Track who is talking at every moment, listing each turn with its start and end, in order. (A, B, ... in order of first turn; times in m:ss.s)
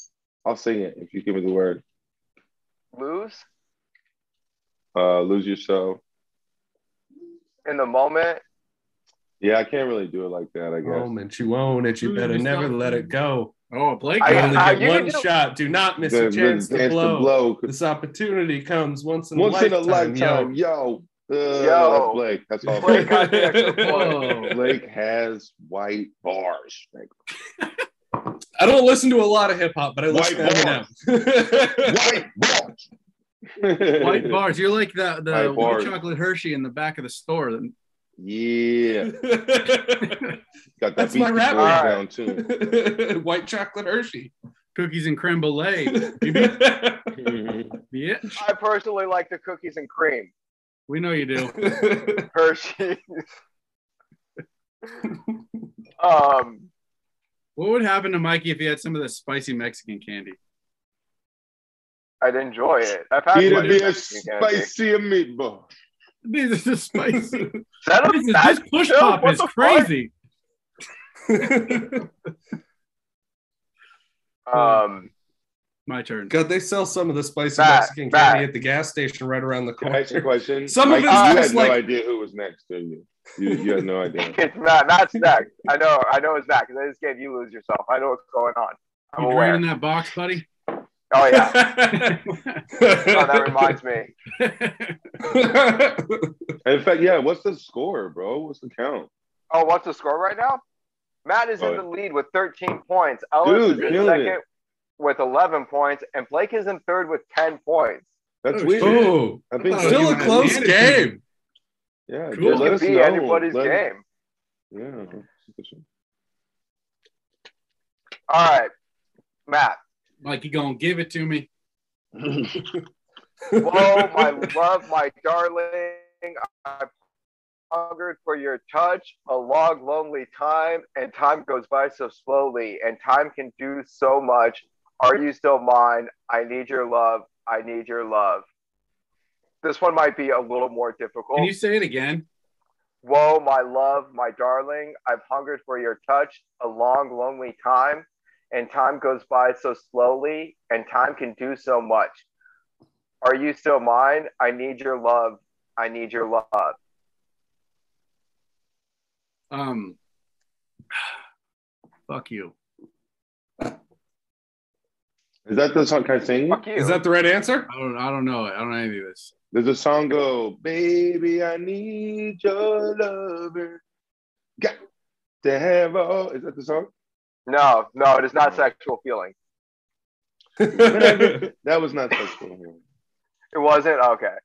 0:00.4-0:01.8 A
0:02.9-0:03.5 B
0:05.0-0:06.0 A
0:07.6-0:08.4 B
0:09.4-0:11.1 A
0:10.8-0:13.5 C
0:12.0-0:13.1 D
0:13.7-0:14.8 D
0:14.2-0:15.2 B
0:14.2-0:20.5 C
0:16.0-0:17.7 A
0:19.4-0:23.3 A
0:21.6-0:22.2 B
0:22.7-0:24.6 C
0:22.8-0:24.3 B
0:23.8-0:24.6 D
0:24.4-0:27.1 A
0:28.6-0:32.0 C
0:30.1-0:30.9 A
0:31.7-0:32.9 A
0:33.6-0:34.4 A
0:34.0-0:37.7 D
0:35.3-0:36.0 A
0:38.2-0:39.1 A
0:39.0-0:40.3 C
0:40.0-0:40.4 D
0:40.8-0:42.4 A
0:41.0-0:44.3 C
0:41.6-0:42.0 B
0:44.8-0:46.6 D
0:45.8-0:47.3 C
0:47.2-0:47.8 A
0:47.9-0:48.4 D
0:48.4-0:50.3 B
0:50.9-0:51.6 D
0:51.4-0:52.3 C
0:52.3-0:53.2 B
0:56.0-0:56.7 B
0:57.6-1:00.4 D
1:02.2-1:04.7 B
1:03.3-1:05.7 A
1:06.2-1:07.5 D
1:07.0-1:07.6 C
1:07.8-1:09.9 B
1:08.0-1:10.1 D
1:11.3-1:12.1 C
1:14.5-1:15.1 B
1:14.5-1:14.8 D
1:15.9-1:16.4 D
1:16.3-1:21.8 C
1:17.6-1:18.5 B
1:19.8-1:24.4 A
1:21.0-1:21.6 B
1:23.4-1:23.8 C
1:24.3-1:29.6 B
1:29.2-1:30.5 D
1:31.1-1:31.6 B
1:31.3-1:32.2 C
1:31.9-1:32.6 D
1:32.7-1:33.8 C
1:33.0-1:34.1 B
1:34.4-1:35.0 D
1:35.2-1:36.4 C
1:36.6-1:39.1 A
1:39.5-1:40.6 B
1:41.2-1:44.4 B
1:41.6-1:41.8 A
1:43.4-1:44.4 A
1:45.0-1:48.1 B
1:48.4-1:50.7 A
1:48.5-1:51.2 D
1:48.8-1:51.2 C
1:52.1-1:53.8 A
1:52.3-1:52.8 D
1:52.4-1:54.0 B
1:54.7-1:55.8 A
1:58.3-1:58.7 B
1:59.5-1:59.8 B
2:00.2-2:01.5 D
2:02.2-2:02.7 A
2:03.6-2:04.4 C
2:03.6-2:06.9 B
2:07.7-2:18.4 B
2:19.6-2:21.5 B
2:21.4-2:22.3 D
2:23.0-2:32.2 B
2:33.2-2:36.8 B
2:39.5-2:40.0 D
2:42.1-2:42.5 D
2:45.5-2:46.6 A
2:46.5-2:47.0 B
2:46.8-2:47.7 C
2:47.7-2:49.3 D
2:49.5-2:53.8 A
2:55.4-2:56.9 A
2:57.5-2:59.3 B
3:00.6-3:01.5 C
3:00.7-3:02.8 A
3:03.5-3:04.4 B